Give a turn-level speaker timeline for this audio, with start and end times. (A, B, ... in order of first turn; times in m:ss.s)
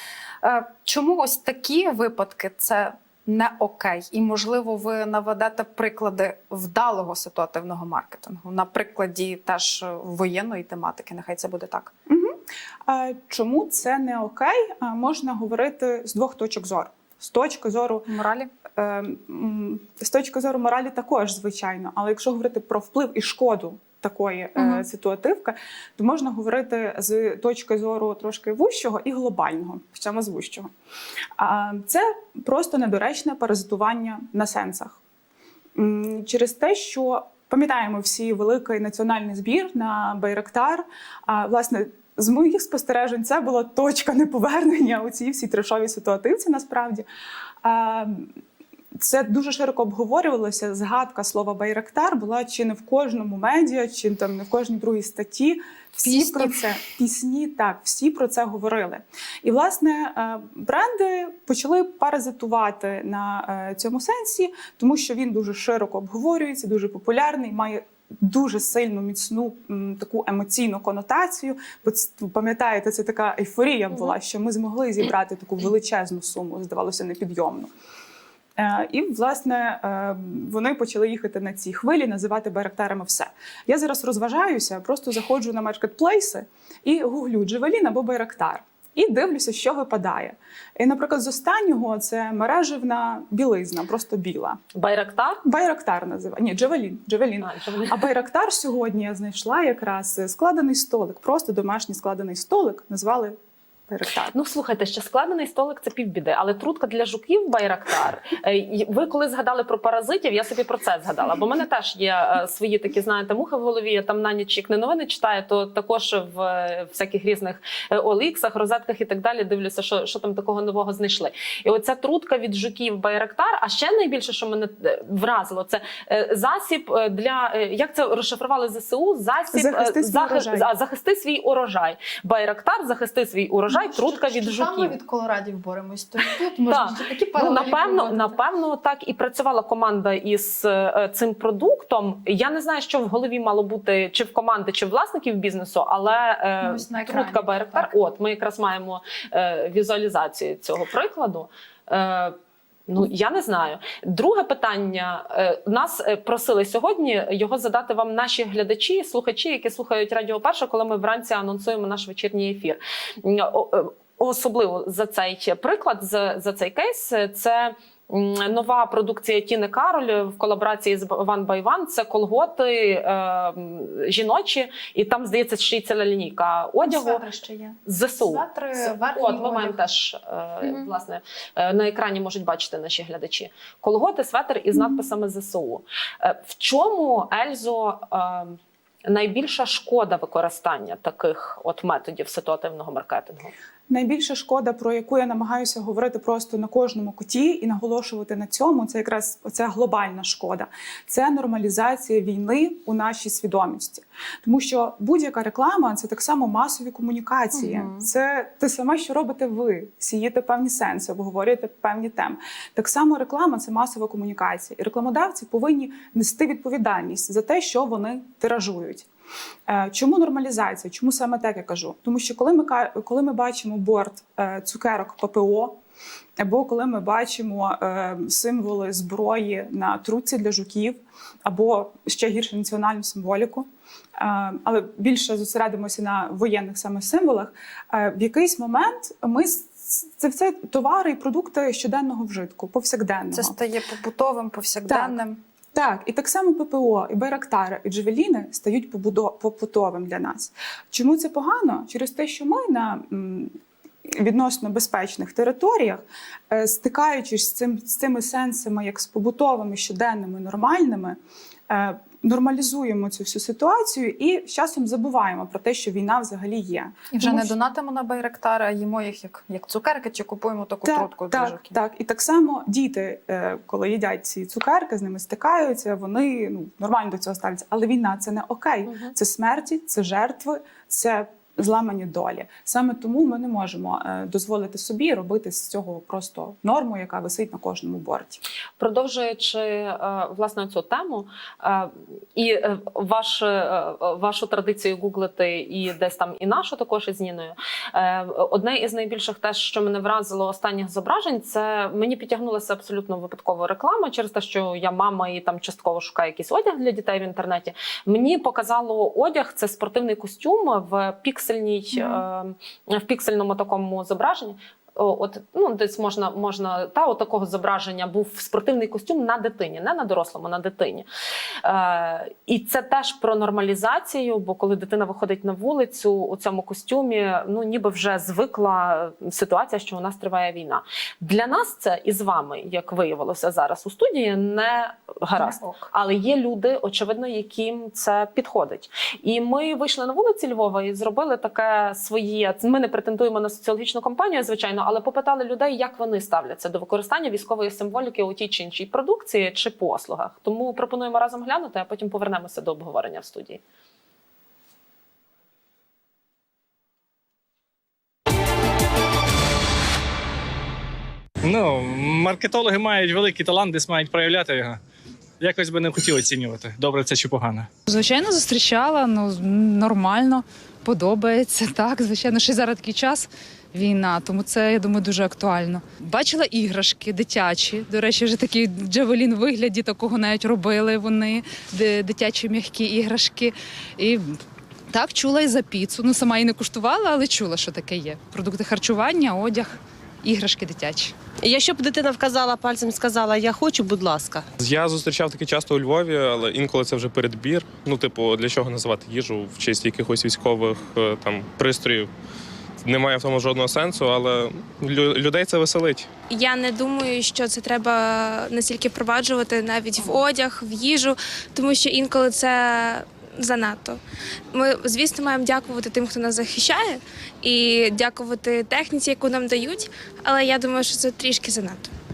0:00.4-0:11.9 A
0:12.1-0:12.4 B
0:12.9-0:18.1 B
0:18.1-0:18.5 A
0:18.7-0:30.7 B
0:24.6-0:24.8 A
0:31.4-0:35.0 B
0:35.8-0:47.1 B
0:47.6-0:48.3 B
0:49.0-1:17.7 B
0:56.1-0:56.6 A
1:18.6-1:34.6 B
1:34.7-1:35.4 C
1:35.4-1:43.4 B
1:37.4-1:38.0 C
1:43.9-1:44.3 B
1:44.3-2:15.0 C
2:09.5-2:10.7 B
2:13.7-2:18.3 A
2:16.2-2:32.4 C
2:26.6-2:27.9 A
2:32.9-2:57.2 C
2:56.8-2:59.8 A
2:57.8-3:13.5 C
3:13.9-3:39.1 B
3:39.7-3:45.8 B
3:46.4-4:03.5 B
4:03.3-4:05.4 A
4:04.9-4:05.2 B
4:05.7-4:13.5 B
4:14.1-4:21.2 B
4:21.7-4:27.5 B
4:27.1-4:31.8 A
4:30.9-4:48.4 B
4:48.8-5:21.1 C
5:12.0-5:12.2 A
5:21.6-5:53.6 C
5:35.4-5:35.9 A
6:01.4-6:04.8 D
6:05.4-6:07.7 D
6:07.9-6:24.4 E
6:24.9-6:31.1 E
6:31.4-6:34.4 F
6:34.6-6:42.1 G
6:42.8-6:46.1 G
6:46.3-6:54.0 H
6:54.5-7:01.9 H